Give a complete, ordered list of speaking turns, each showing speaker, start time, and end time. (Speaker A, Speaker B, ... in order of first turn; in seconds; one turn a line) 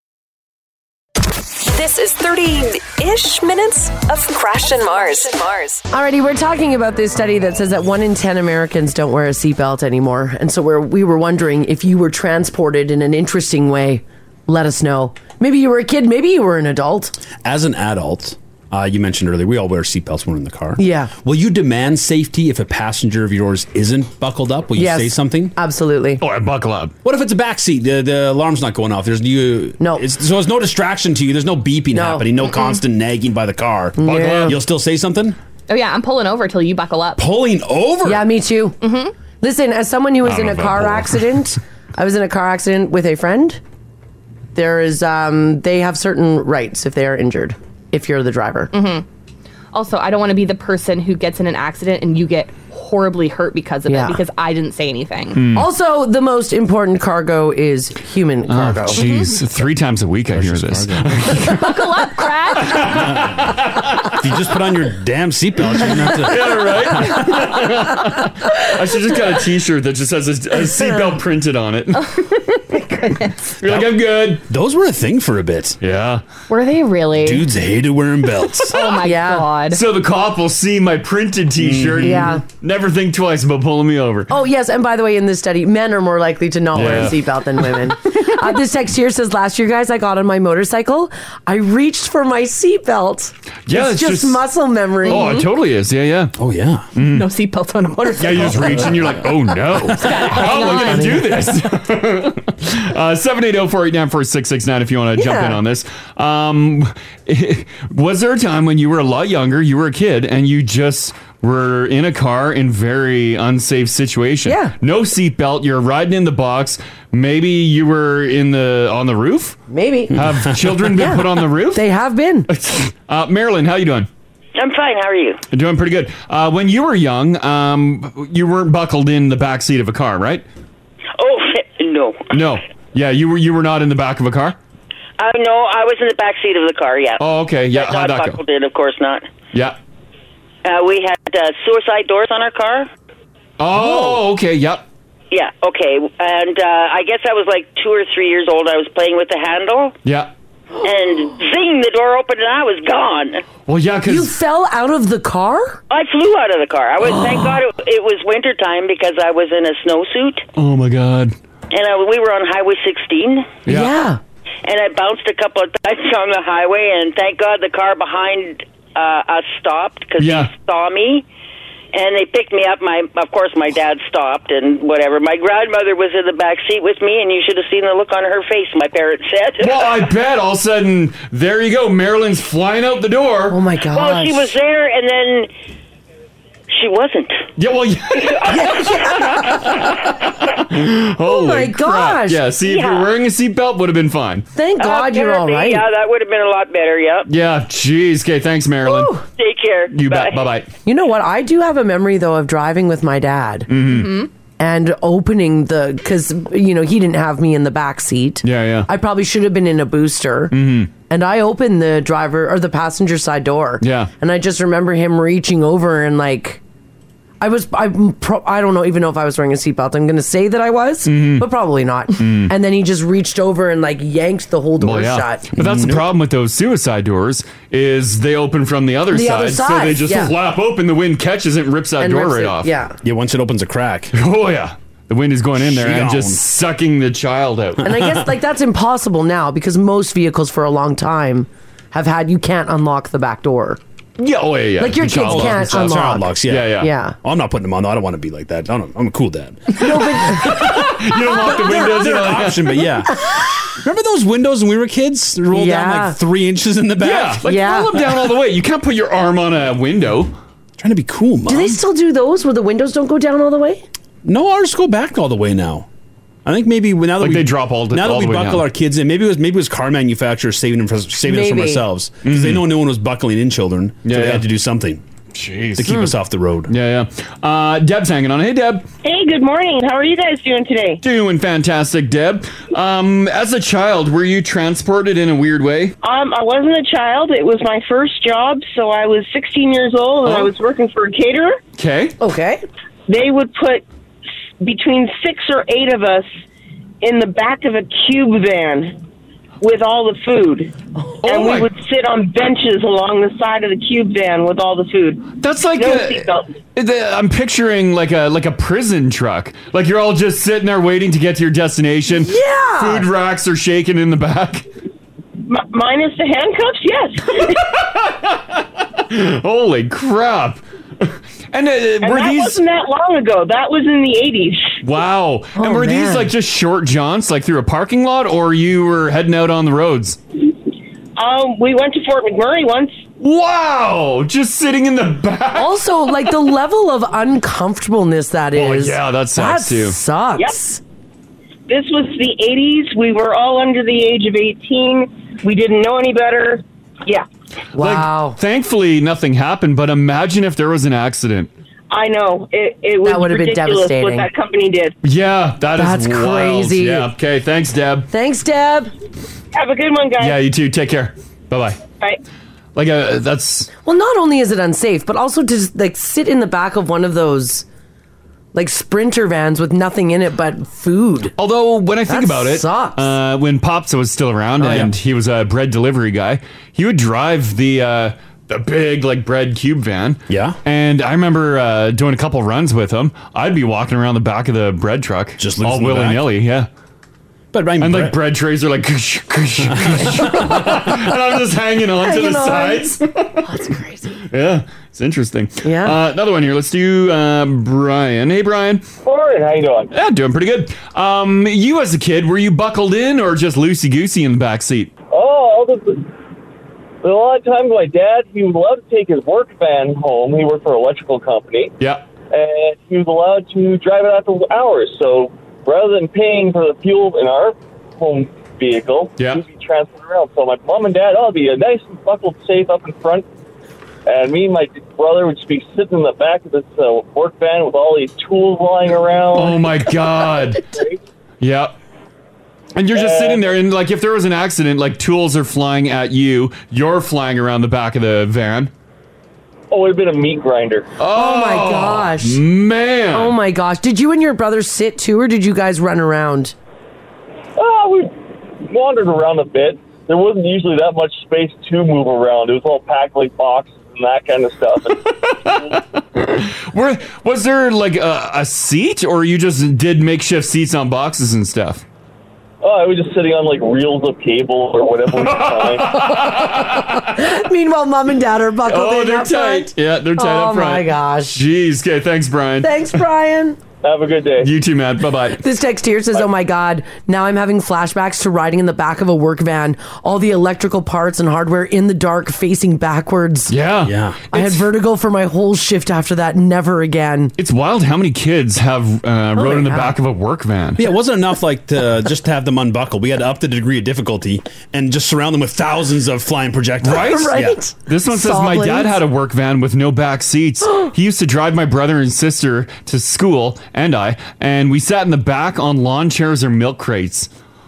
Speaker A: 1.5-5.9
Speaker B: 5.9-17.1
Speaker C: 17.4-25.6
Speaker B: 20.8-21.1
Speaker B: 24.8-26.2
Speaker D: 26.2-26.9
Speaker C: 27.0-35.4
Speaker B: 31.9-32.3
Speaker B: 34.0-34.6
Speaker D: 34.0-34.6
Speaker E: 35.7-37.2
Speaker C: 37.2-38.2
Speaker B: 38.0-38.8
Speaker E: 38.8-39.1
Speaker B: 39.4-43.6
Speaker D: 40.2-41.2
Speaker B: 44.5-48.7
Speaker E: 48.7-49.0
Speaker E: 49.7-55.5
Speaker B: 53.9-54.2
Speaker D: 55.4-55.7
Speaker B: 55.5-59.0
Speaker D: 58.5-62.0
Speaker E: 59.0-59.3
Speaker C: 60.3-61.4
Speaker E: 61.4-63.1
Speaker D: 62.6-64.3
Speaker C: 63.0-63.6
Speaker C: 64.1-67.6
Speaker D: 66.0-72.2
Speaker E: 72.0-73.5
Speaker D: 73.6-74.4
Speaker C: 73.6-75.8
Speaker D: 75.8-76.2
Speaker E: 76.5-77.5
Speaker C: 77.2-78.8
Speaker E: 78.7-79.8
Speaker B: 79.0-79.5
Speaker D: 79.7-84.3
Speaker C: 81.6-82.3
Speaker B: 82.0-82.4
Speaker B: 84.3-95.4
Speaker D: 86.7-87.2
Speaker D: 93.7-94.5
Speaker D: 95.0-96.3
Speaker E: 95.1-95.5
Speaker C: 96.4-96.9
Speaker D: 97.0-97.3
Speaker E: 97.0-101.5
Speaker D: 98.2-119.6
Speaker B: 100.2-101.2
Speaker B: 105.2-105.6
Speaker B: 114.5-114.8
Speaker B: 119.7-120.2
Speaker D: 120.1-121.8
Speaker C: 120.2-120.8
Speaker B: 121.0-122.5
Speaker D: 122.5-124.1
Speaker F: 124.6-125.4
Speaker D: 125.5-130.4
Speaker F: 131.2-132.3
Speaker D: 132.3-134.6
Speaker F: 135.2-139.3
Speaker D: 137.2-138.4
Speaker F: 140.7-142.9
Speaker D: 143.6-144.8
Speaker B: 143.7-144.2
Speaker F: 145.3-149.9
Speaker D: 150.1-150.3
Speaker F: 150.8-153.4
Speaker D: 153.7-154.3
Speaker B: 154.1-155.8
Speaker F: 155.9-160.4
Speaker D: 160.6-161.3
Speaker F: 161.7-163.6
Speaker D: 163.7-164.0
Speaker B: 163.7-164.2
Speaker F: 164.7-171.2
Speaker D: 170.2-170.5
Speaker F: 171.9-179.9
Speaker D: 179.6-183.6
Speaker B: 183.5-184.5
Speaker F: 183.9-185.5
Speaker F: 186.7-187.5
Speaker D: 187.6-194.5
Speaker F: 188.2-188.6
Speaker B: 188.5-189.9
Speaker B: 191.2-192.4
Speaker F: 192.6-193.1
Speaker B: 194.5-195.8
Speaker F: 194.8-197.3
Speaker D: 197.3-199.2
Speaker B: 198.9-199.2
Speaker F: 199.3-200.4
Speaker D: 199.9-200.7
Speaker B: 200.8-203.7
Speaker D: 203.7-204.2
Speaker E: 203.8-204.3
Speaker B: 204.6-210.6
Speaker D: 208.4-208.9
Speaker D: 210.5-210.9
Speaker B: 211.1-216.6
Speaker D: 213.8-214.1
Speaker B: 217.4-225.5
Speaker D: 221.1-221.5
Speaker D: 222.2-222.5
Speaker D: 224.8-232.7
Speaker C: 225.6-226.1
Speaker B: 229.1-230.3
Speaker B: 232.0-232.9
Speaker C: 233.0-234.2
Speaker D: 234.1-237.9
Speaker C: 235.6-236.4
Speaker C: 237.8-238.2
Speaker B: 237.8-243.8
Speaker D: 244.2-246.9
Speaker B: 244.8-247.2
Speaker C: 245.2-257.5
Speaker B: 249.8-250.8
Speaker D: 250.2-252.8
Speaker B: 255.5-256.2
Speaker D: 257.0-260.3
Speaker B: 257.4-257.9
Speaker C: 260.8-261.8
Speaker B: 261.5-263.8
Speaker C: 264.2-265.9
Speaker C: 266.4-275.0
Speaker D: 267.2-268.6
Speaker B: 271.3-271.8
Speaker D: 272.2-272.7
Speaker D: 274.1-274.5
Speaker D: 275.3-276.1
Speaker C: 275.8-276.7
Speaker D: 276.7-278.9
Speaker G: 279.0-281.0
Speaker D: 281.0-286.0
Speaker G: 286.0-291.6
Speaker D: 290.2-290.5
Speaker D: 291.8-292.2
Speaker B: 292.2-292.6
Speaker G: 293.1-293.8
Speaker G: 294.6-296.3
Speaker G: 297.0-299.0
Speaker G: 299.6-305.3
Speaker D: 301.2-301.7
Speaker D: 305.4-314.7
Speaker G: 305.8-306.5
Speaker B: 312.2-313.1
Speaker G: 315.5-317.7
Speaker D: 317.4-322.6
Speaker G: 322.0-324.8
Speaker D: 324.8-330.2
Speaker B: 325.6-326.3
Speaker G: 331.2-333.0
Speaker D: 333.2-335.8
Speaker B: 335.6-340.8
Speaker D: 338.6-340.0
Speaker G: 341.7-347.3
Speaker B: 347.8-348.4
Speaker D: 347.8-351.5
Speaker G: 351.9-354.9
Speaker B: 353.0-354.3
Speaker D: 355.0-358.1
Speaker B: 355.8-357.1
Speaker B: 358.1-358.9
Speaker G: 359.5-360.4
Speaker D: 360.2-361.8
Speaker D: 362.8-363.7
Speaker B: 363.8-367.6
Speaker B: 368.5-371.4
Speaker D: 371.4-386.7
Speaker B: 372.1-373.1
Speaker C: 374.6-374.9
Speaker C: 380.3-380.6
Speaker C: 385.4-386.2
Speaker C: 387.5-388.2
Speaker D: 387.8-393.6
Speaker C: 389.6-390.6
Speaker B: 390.2-390.5
Speaker B: 392.0-394.1
Speaker D: 394.2-398.9
Speaker B: 395.6-396.0
Speaker H: 399.1-399.9
Speaker D: 399.9-404.9
Speaker H: 405.1-406.1
Speaker H: 407.0-411.7
Speaker D: 411.8-412.1
Speaker H: 412.3-423.2
Speaker D: 419.2-419.4
Speaker H: 424.1-429.7
Speaker D: 429.3-430.8
Speaker H: 430.7-431.0
Speaker D: 431.4-431.7
Speaker D: 432.8-438.7
Speaker H: 432.9-433.6
Speaker H: 439.7-440.9
Speaker D: 441.0-443.4
Speaker B: 441.1-442.4
Speaker B: 443.1-446.6
Speaker H: 447.6-455.8
Speaker D: 455.1-461.8
Speaker H: 462.6-466.0
Speaker D: 465.2-467.2
Speaker B: 466.1-471.4
Speaker D: 468.7-472.9
Speaker B: 472.6-473.6
Speaker H: 473.8-474.5
Speaker D: 474.4-475.4
Speaker B: 475.4-483.5
Speaker D: 483.5-484.7
Speaker C: 483.8-484.2
Speaker B: 484.3-487.3
Speaker D: 487.4-490.9
Speaker B: 489.4-490.0
Speaker C: 490.8-497.6
Speaker B: 496.8-499.0
Speaker D: 496.8-507.3
Speaker B: 500.6-500.9